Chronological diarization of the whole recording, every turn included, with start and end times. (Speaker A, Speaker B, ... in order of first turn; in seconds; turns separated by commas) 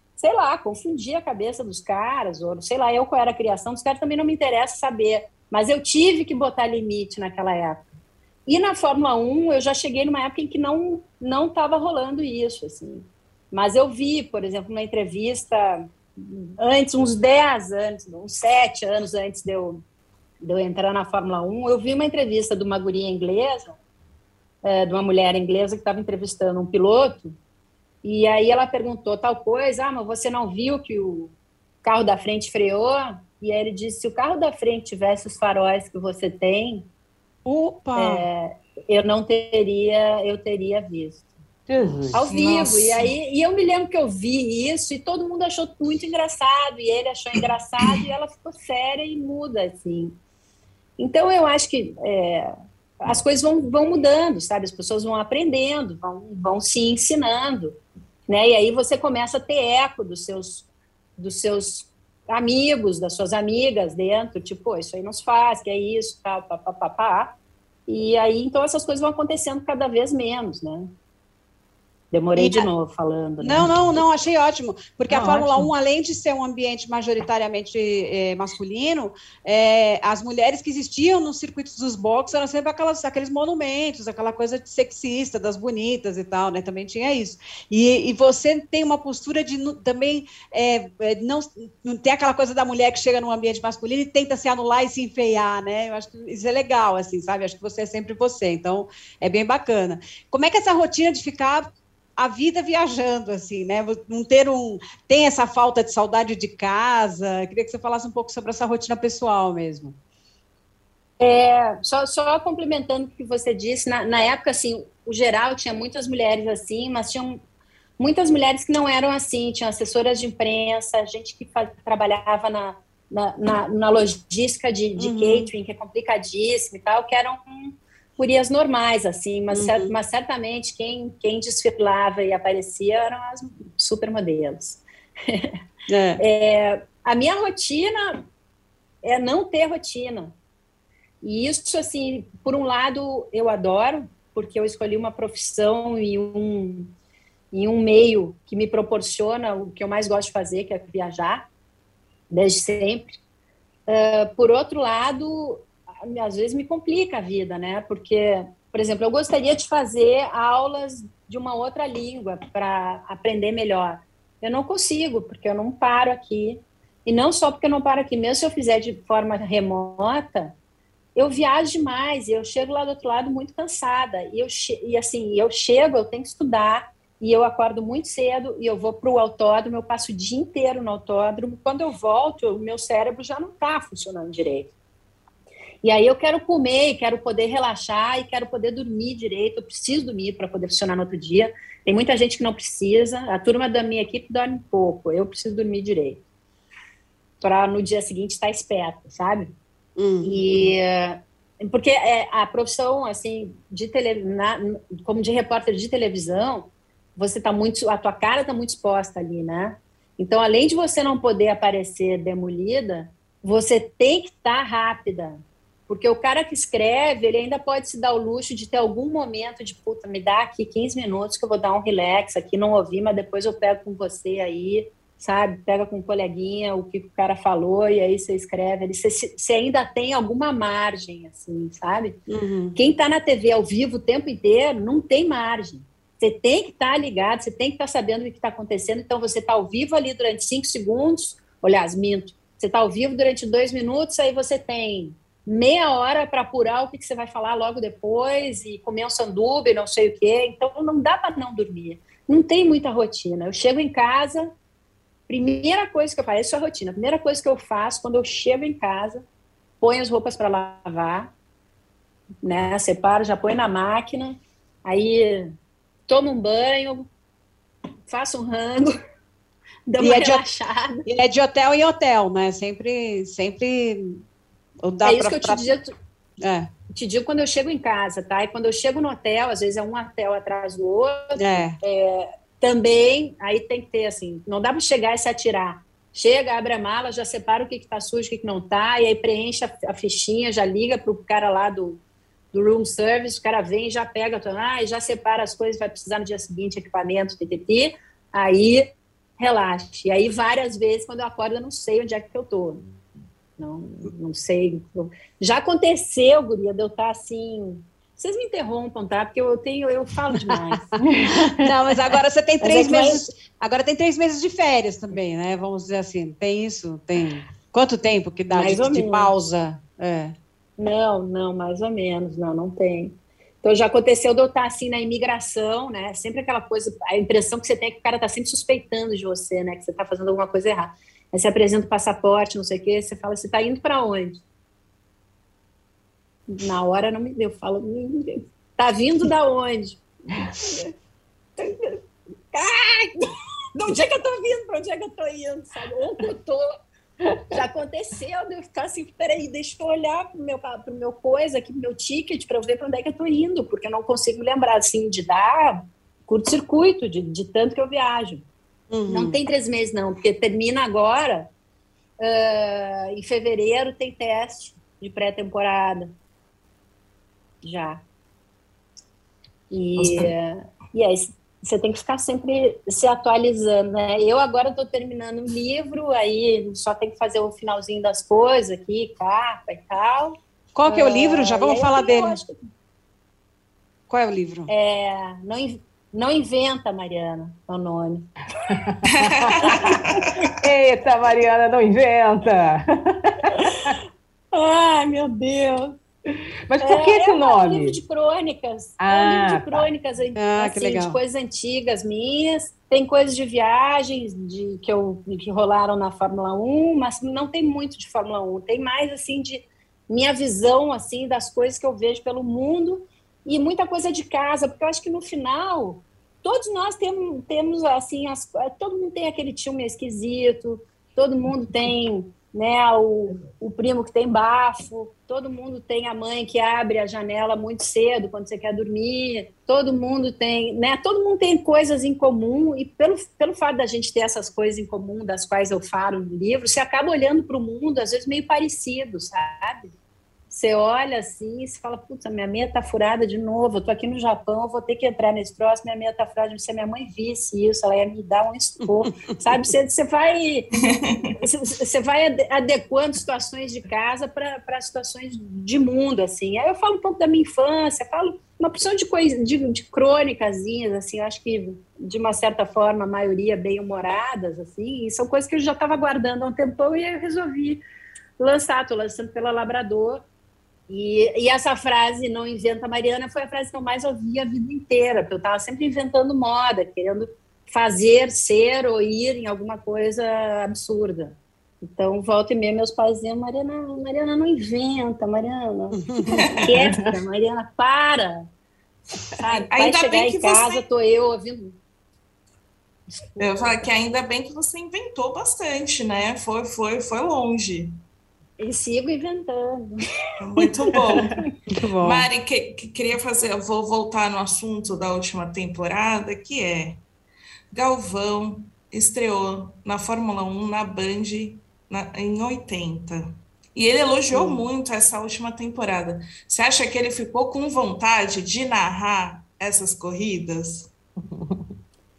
Speaker A: 0.2-7.8, Speaker A: 8.5-19.8, Speaker A: 20.4-23.8, Speaker A: 24.6-27.4, Speaker A: 28.0-36.8, Speaker B: 37.4-38.2, Speaker A: 38.0-41.2, Speaker C: 41.7-42.3, Speaker A: 42.1-50.1, Speaker D: 42.3-43.1, Speaker A: 51.0-52.5, Speaker A: 53.0-57.8, Speaker A: 58.3-60.6, Speaker A: 61.2-67.3, Speaker A: 67.9-70.9, Speaker A: 72.1-73.7, Speaker B: 72.3-72.7, Speaker B: 73.4-101.7, Speaker C: 75.1-75.7, Speaker B: 102.2-109.9, Speaker A: 111.2-117.4, Speaker A: 118.0-135.5, Speaker B: 125.0-125.5, Speaker B: 129.5-129.9, Speaker B: 135.9-136.2, Speaker A: 136.2-138.2, Speaker A: 139.0-140.3, Speaker A: 141.2-146.9, Speaker A: 147.5-151.4, Speaker A: 152.3-153.2, Speaker A: 153.9-170.5, Speaker A: 171.2-184.7, Speaker A: 185.8-196.2, Speaker A: 197.4-199.5, Speaker B: 200.0-200.3, Speaker A: 200.2-232.2, Speaker B: 232.3-232.8, Speaker A: 232.8-254.5, Speaker A: 255.3-259.2, Speaker A: 259.8-261.3, Speaker A: 262.4-265.5, Speaker A: 266.1-267.1, Speaker A: 268.1-268.9, Speaker A: 269.9-271.0, Speaker B: 270.0-270.4, Speaker B: 271.1-274.2, Speaker B: 274.8-275.6, Speaker A: 275.0-275.9, Speaker B: 276.4-276.7, Speaker A: 276.9-292.0, Speaker B: 281.4-281.7, Speaker A: 292.5-302.9, Speaker A: 303.6-310.8, Speaker C: 311.0-311.7, Speaker B: 311.3-320.3, Speaker A: 312.6-313.2, Speaker A: 318.5-319.3, Speaker A: 320.8-334.4, Speaker A: 336.5-340.9, Speaker A: 341.6-346.6, Speaker A: 347.5-358.4, Speaker B: 358.9-359.4, Speaker A: 359.1-361.5, Speaker A: 362.2-366.1, Speaker A: 367.6-368.0, Speaker A: 369.7-382.6, Speaker D: 370.0-370.3, Speaker B: 380.7-382.4, Speaker B: 384.1-384.7, Speaker A: 384.7-388.3, Speaker C: 388.7-390.0, Speaker D: 389.2-390.3, Speaker A: 389.6-390.0, Speaker C: 390.6-393.9, Speaker A: 393.6-394.0, Speaker A: 394.5-395.9, Speaker C: 396.7-398.0, Speaker A: 396.8-439.9, Speaker C: 399.0-399.9, Speaker B: 400.4-401.2, Speaker A: 440.5-450.7, Speaker D: 450.8-451.3, Speaker A: 451.4-467.8, Speaker A: 468.4-470.2, Speaker A: 470.9-488.4, Speaker D: 486.4-486.7, Speaker C: 486.7-487.1, Speaker A: 489.3-491.8, Speaker D: 489.5-490.8, Speaker D: 493.4-498.0, Speaker A: 498.6-501.5, Speaker D: 500.4-501.3, Speaker B: 501.7-502.3, Speaker D: 502.0-507.0, Speaker D: 507.7-520.9, Speaker C: 521.3-521.6